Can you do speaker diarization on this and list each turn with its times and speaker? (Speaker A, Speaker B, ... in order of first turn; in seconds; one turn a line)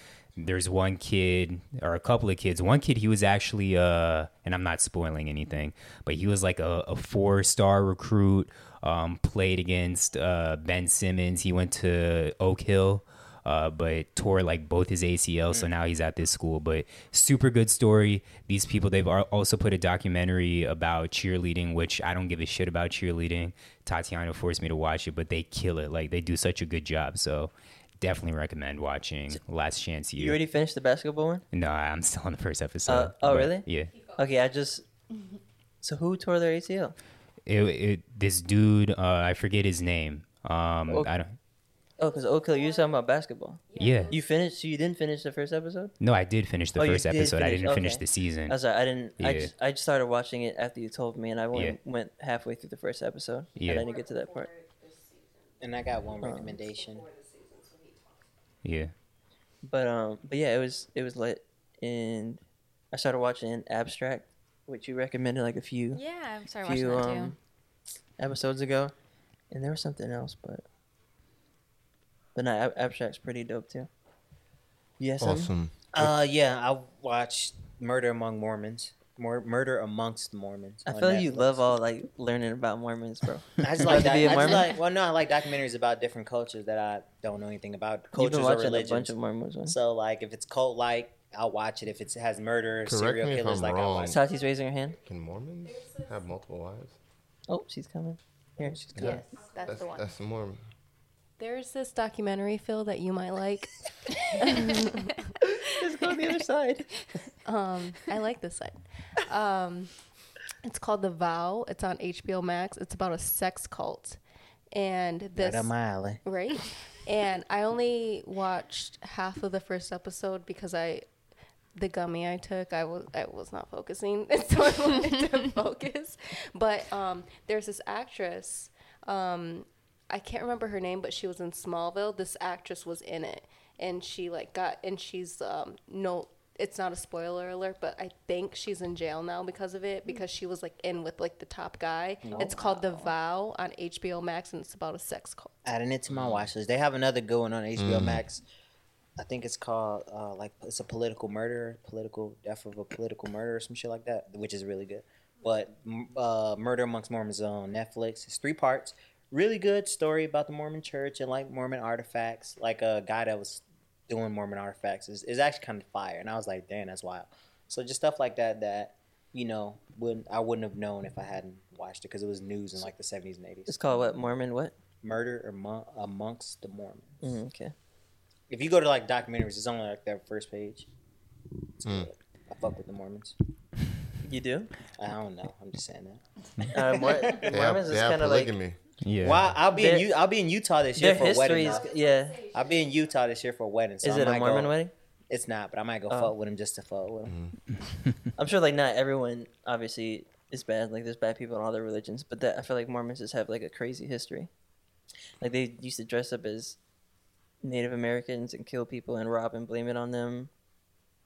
Speaker A: 0.4-30.4
Speaker B: 30.2-31.4
Speaker A: 31.5-34.0
Speaker B: 32.9-34.8
Speaker B: 35.8-36.9
Speaker A: 37.5-41.3
Speaker B: 40.9-41.1
Speaker B: 42.0-45.9
Speaker C: 43.7-44.1
Speaker A: 43.8-44.1
Speaker A: 46.0-48.6
Speaker B: 46.8-54.5
Speaker A: 49.2-49.5
Speaker A: 51.5-51.8
Speaker A: 53.5-53.9
Speaker C: 54.5-54.8
Speaker D: 55.6-57.1
Speaker B: 56.2-56.5
Speaker A: 58.6-58.9
Speaker B: 59.6-62.4
Speaker B: 62.9-66.0
Speaker E: 65.9-67.3
Speaker B: 66.6-67.3
Speaker B: 68.2-68.9
Speaker B: 69.5-70.6
Speaker B: 72.3-73.9
Speaker B: 75.0-75.5
Speaker F: 75.2-76.2
Speaker D: 75.9-81.7
Speaker B: 80.9-84.8
Speaker D: 83.6-89.1
Speaker B: 88.1-89.8
Speaker D: 89.7-94.2
Speaker F: 92.8-94.2
Speaker B: 94.1-95.0
Speaker F: 95.0-97.0
Speaker C: 95.8-96.2
Speaker B: 97.5-98.8
Speaker D: 98.6-99.2
Speaker E: 99.0-100.0
Speaker C: 99.0-100.0
Speaker F: 99.7-100.6
Speaker C: 101.4-103.7
Speaker C: 104.3-105.3
Speaker E: 104.4-104.8
Speaker B: 105.5-106.9
Speaker C: 107.4-109.9
Speaker C: 110.6-114.2
Speaker C: 114.7-115.7
Speaker D: 115.3-116.2
Speaker C: 116.2-121.0
Speaker C: 121.8-145.5
Speaker D: 142.2-142.7
Speaker E: 142.4-143.0
Speaker D: 145.6-148.4
Speaker F: 146.1-146.5
Speaker F: 147.8-148.2
Speaker D: 149.2-173.8
Speaker B: 173.7-174.7
Speaker D: 175.0-177.3
Speaker B: 177.2-177.7
Speaker D: 178.5-180.9
Speaker D: 181.8-183.3
Speaker B: 184.2-184.7
Speaker D: 184.9-186.2
Speaker B: 186.7-188.5
Speaker F: 187.4-188.8
Speaker A: 189.0-189.6
Speaker D: 189.2-191.9
Speaker B: 189.7-190.1
Speaker B: 190.9-192.5
Speaker D: 192.5-194.7
Speaker B: 194.0-194.9
Speaker D: 195.3-197.3
Speaker B: 196.1-196.3
Speaker F: 197.2-197.6
Speaker B: 198.3-204.5
Speaker B: 205.4-206.8
Speaker B: 207.6-210.5